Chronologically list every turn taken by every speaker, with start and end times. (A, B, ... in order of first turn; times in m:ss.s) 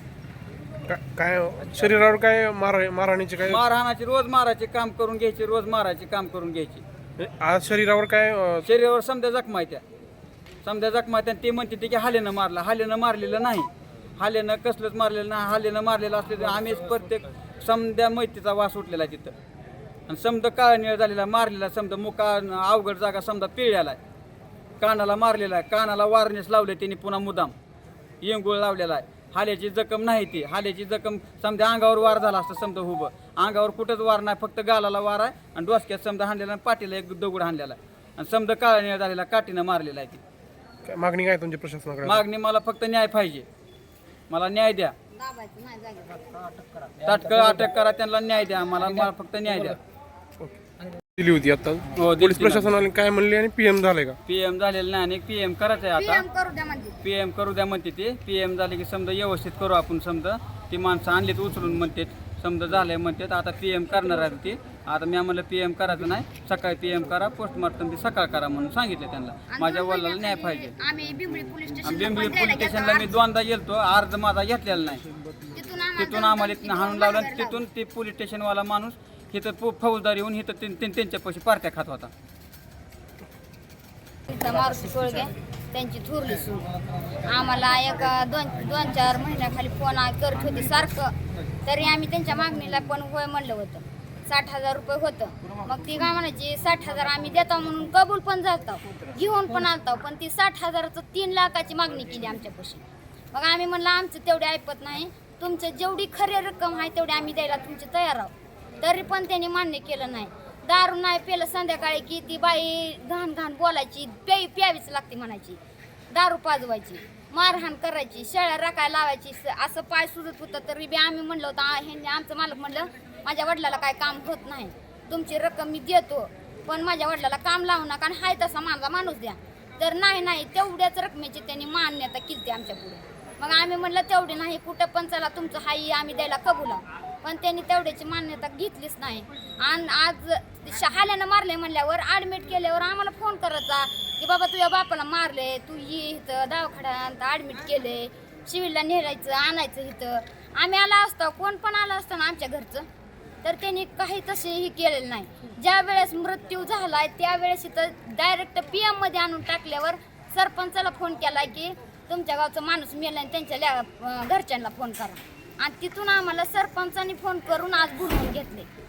0:00.9-0:03.6 A
0:03.4-0:06.8 B
0:07.2-0:08.6 A
0:08.6-0:09.8 B
0:10.6-0:19.4 B
0:20.1-0:24.0 B
0:24.8-0:27.5 B
0:28.2-0:40.2 B
0:40.8-0:42.2 A
0:42.0-0:43.5 B
0:44.3-0:45.0 B
0:45.1-0:46.4 C
0:47.0-0:49.8 B
0:51.2-0:54.2 A
0:52.0-0:52.8 B
0:54.3-0:56.2 B
0:55.9-0:57.0 C
0:57.0-1:10.8 B
1:09.5-1:13.1 C
1:11.8-1:15.0 B
1:15.5-1:17.6 C
1:16.0-1:22.1 B
1:24.3-1:55.6 C
1:56.1-2:32.9 C
2:33.4-2:48.7 C